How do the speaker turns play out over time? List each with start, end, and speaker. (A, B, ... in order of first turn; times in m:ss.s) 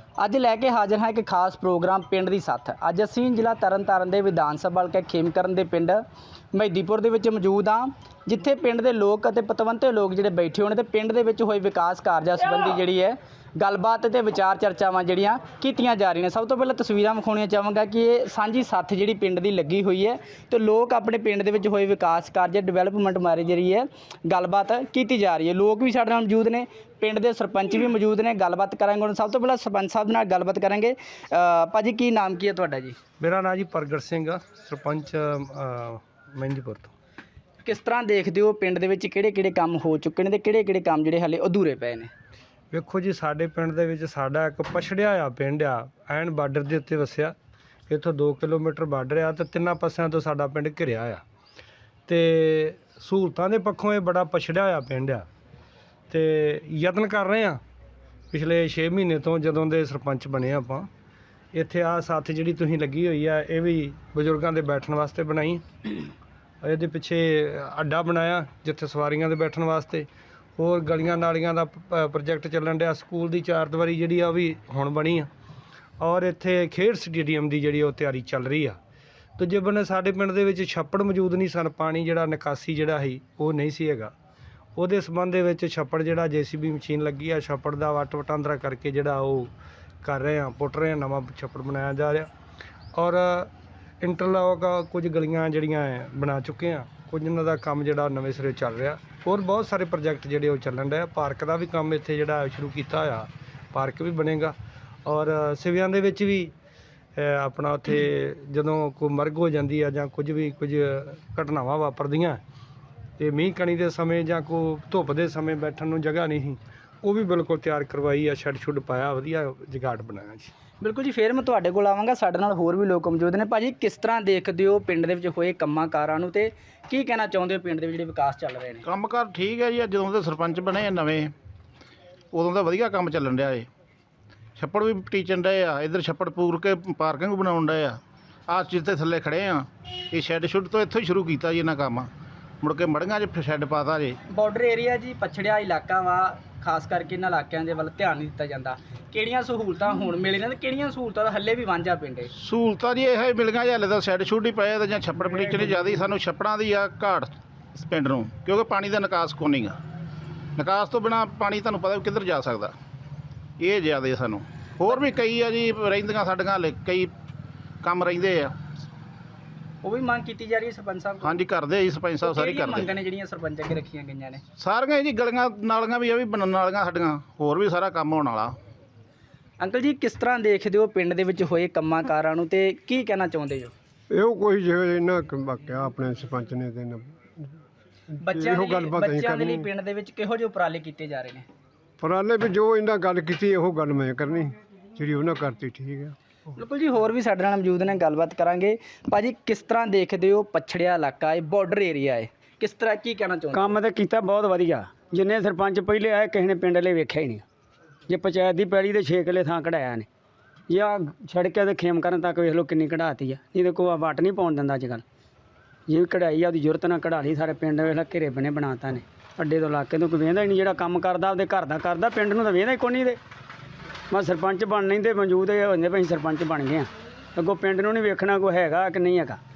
0:00.2-0:33.0 A
0:33.2-0:36.9 B
0:37.6-0:42.1 A
0:42.7-0:47.3 B
0:47.9-0:51.2 B
0:52.1-0:55.3 B
0:56.1-0:57.6 B
0:58.3-1:00.9 B
1:01.5-1:05.9 B
1:06.6-1:15.3 B
1:16.0-1:18.8 B
1:19.4-1:24.1 B
1:24.8-1:32.3 B
1:32.9-1:46.5 B
1:47.2-1:52.4 B
1:53.2-2:00.5 B
2:00.8-2:08.8 A
2:08.8-2:11.3 C
2:12.3-2:13.7 C
2:14.6-2:22.1 C
2:22.6-2:24.2 C
2:24.3-2:32.3 A
2:32.3-2:39.8 C
2:40.6-2:42.7 C
2:43.6-2:47.1 C
2:47.8-2:48.6 C
2:49.8-2:51.4 A
2:51.2-2:52.9 C
2:52.2-2:54.4 A
2:54.6-2:58.6 C
2:59.6-3:03.7 A
3:04.1-3:07.3 D
3:08.2-3:11.4 A
3:08.3-3:09.7 D
3:12.0-3:16.1 D
3:16.5-3:23.8 A
3:23.5-3:27.4 E
3:28.1-3:30.1 E
3:30.7-3:35.0 E
3:35.9-3:43.2 E
3:44.1-3:49.4 E